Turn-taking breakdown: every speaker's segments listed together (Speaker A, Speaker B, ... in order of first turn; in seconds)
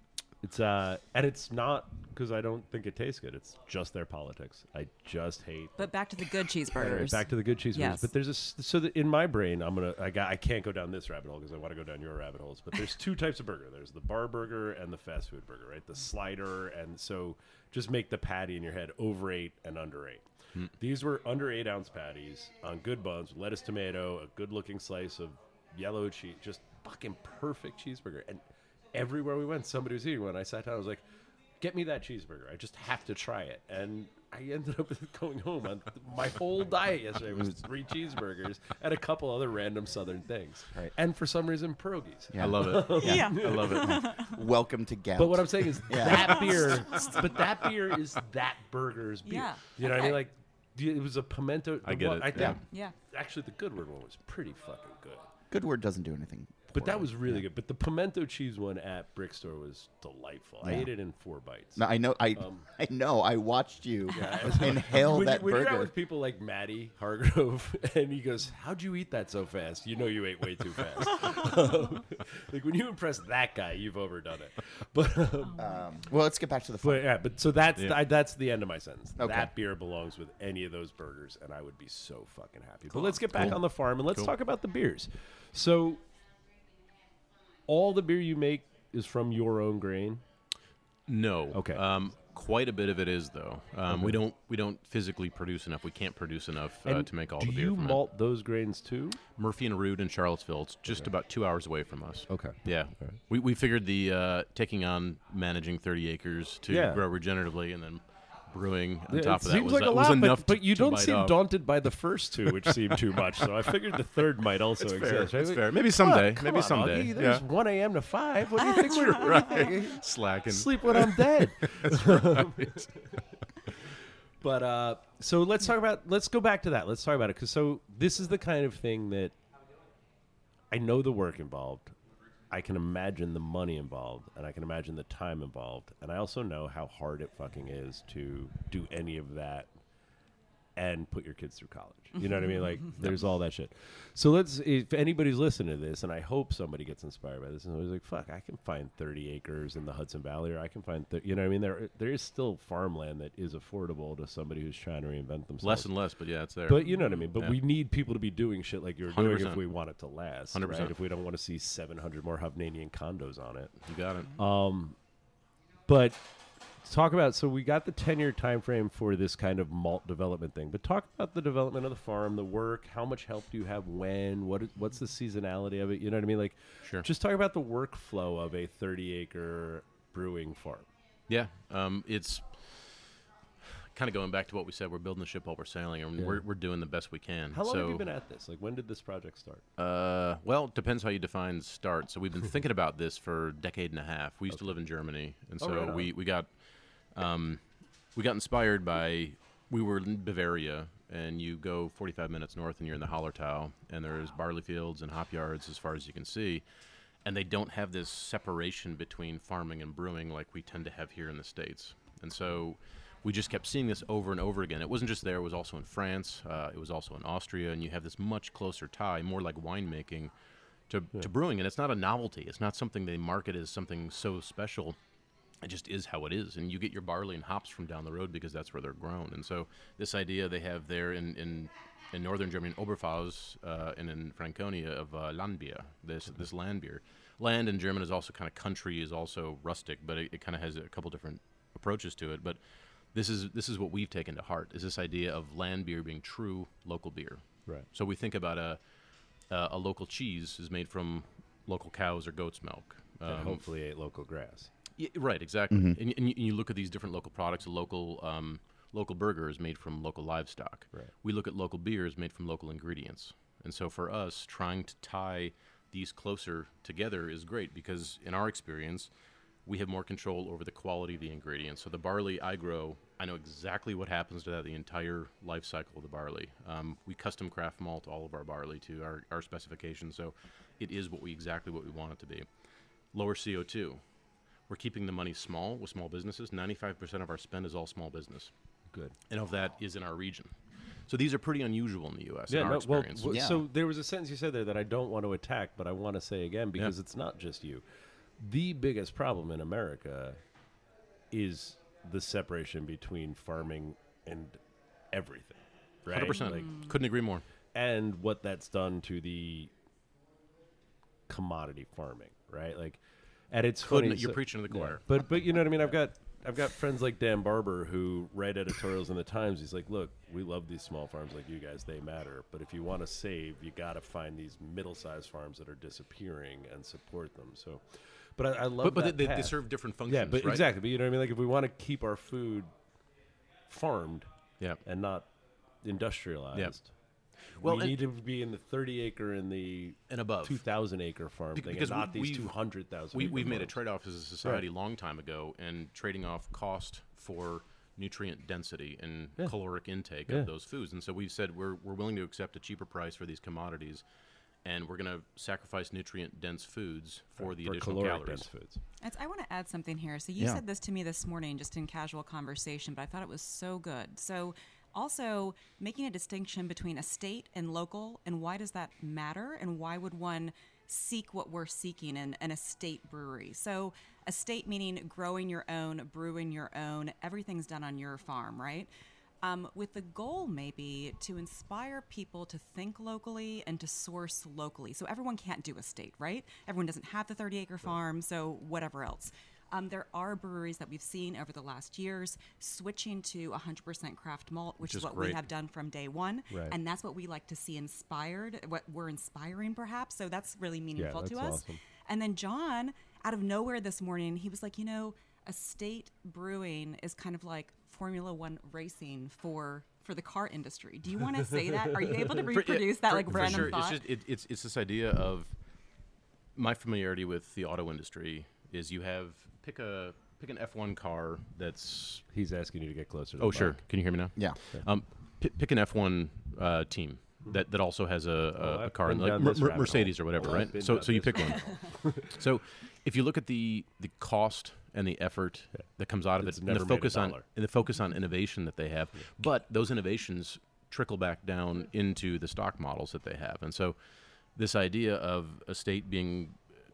Speaker A: 0.4-31.0, 31.6-43.8, 45.2-55.3, 56.7-62.7, 64.1-75.8, 76.8-86.0, 87.7-90.2, 91.5-91.8, 93.9-94.2, 96.8-99.2, 102.3-103.2, 106.7-107.1, 109.1-123.1, 124.4-129.3, 130.7-132.0, 132.5-139.7, 140.8-155.9, 156.7-163.8, 164.3-165.0, 165.9-166.2, 166.8-180.9, 186.2-186.4, 187.5-189.6, 195.6-196.1, 253.2-254.7, 292.5-297.8, 298.4-300.4, 301.3-306.9, 307.8-309.7, 311.3-332.7, 333.7-334.3, 334.8-335.3, 335.8-336.9, 337.5-343.8, 357.4-358.8, 396.5-396.8, 401.0-401.8, 411.9-412.2, 413.3-413.8, 422.3-423.8, 428.6-432.3, 436.4-437.4
Speaker B: 5.8-8.1, 43.0-44.4, 49.2-50.2, 52.7-53.0, 118.6-119.7, 156.8-157.2, 359.0-378.9, 379.4-414.0
Speaker C: 42.3-46.8, 52.3-52.6, 55.5-57.4, 60.6-60.9, 61.8-65.9, 75.6-77.0, 79.2-79.5, 255.7-256.0, 293.3-293.6
Speaker D: 42.4-44.1, 51.8-52.6, 82.9-84.3, 91.1-98.0, 99.4-111.4, 114.8-117.4, 118.7-122.9, 155.6-157.6, 159.1-159.8, 160.5-160.9, 163.8-164.3, 181.3-188.1, 189.8-196.5, 197.1-206.6, 207.2-220.3, 220.9-225.0, 225.6-242.6, 243.1-248.8, 249.5-253.6, 255.0-269.1, 269.7-282.5, 283.1-284.0, 284.7-288.5, 289.3-293.4, 306.1-307.4, 313.9-315.2, 328.8-330.7, 337.6-338.0, 340.1-340.6, 341.6-342.6, 343.1-354.0, 354.6-358.5, 394.8-395.4, 412.5-415.5, 416.6-422.3, 423.4-444.0, 444.6-446.6